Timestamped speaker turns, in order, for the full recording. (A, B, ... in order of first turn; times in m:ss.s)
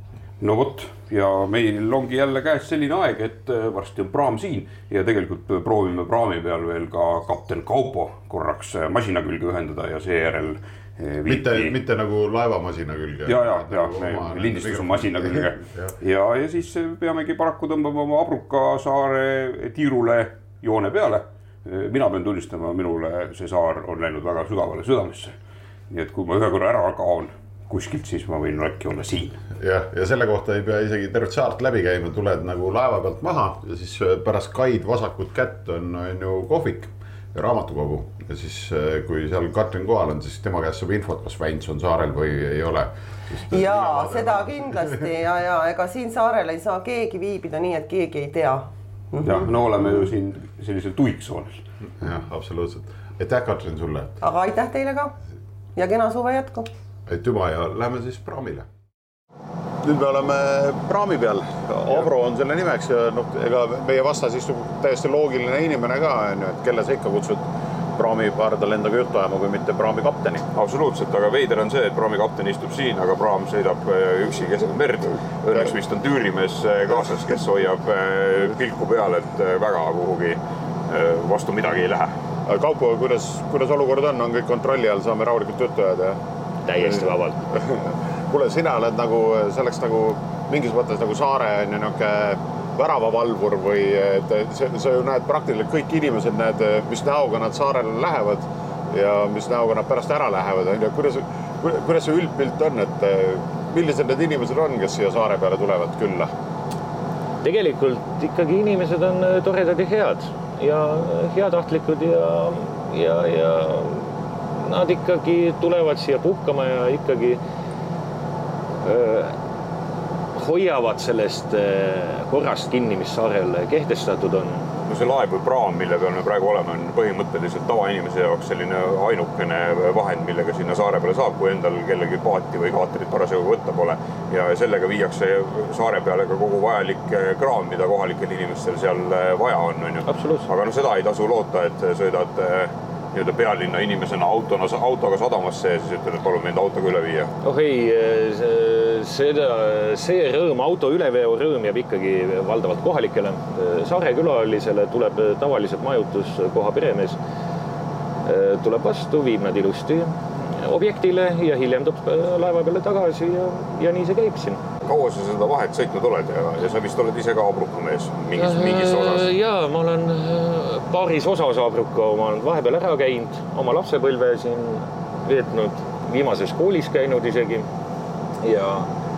0:00.4-0:11.8 A
0:11.3-0:15.9 B
0:13.3-0:25.4 A
0:25.9-0:29.4 A
0:29.6-0:44.8 B
0:43.4-0:50.1 C
0:49.2-0:51.7 A
0:52.0-0:54.2 B
0:54.2-0:55.2 C
0:55.7-0:56.7 C
0:57.1-0:58.7 B
0:59.8-1:10.4 B
1:10.5-1:22.1 D
1:22.4-1:26.2 B
1:26.6-1:27.4 E
1:26.8-1:46.3 B
1:47.4-1:57.4 E
1:58.8-1:59.4 E
2:00.3-2:04.7 E
2:04.9-2:27.3 D
2:20.0-2:20.5 E
2:27.4-2:37.2 E
2:38.2-2:44.6 E
2:44.8-2:49.3 D
2:48.4-2:57.7 E
2:58.4-2:58.9 E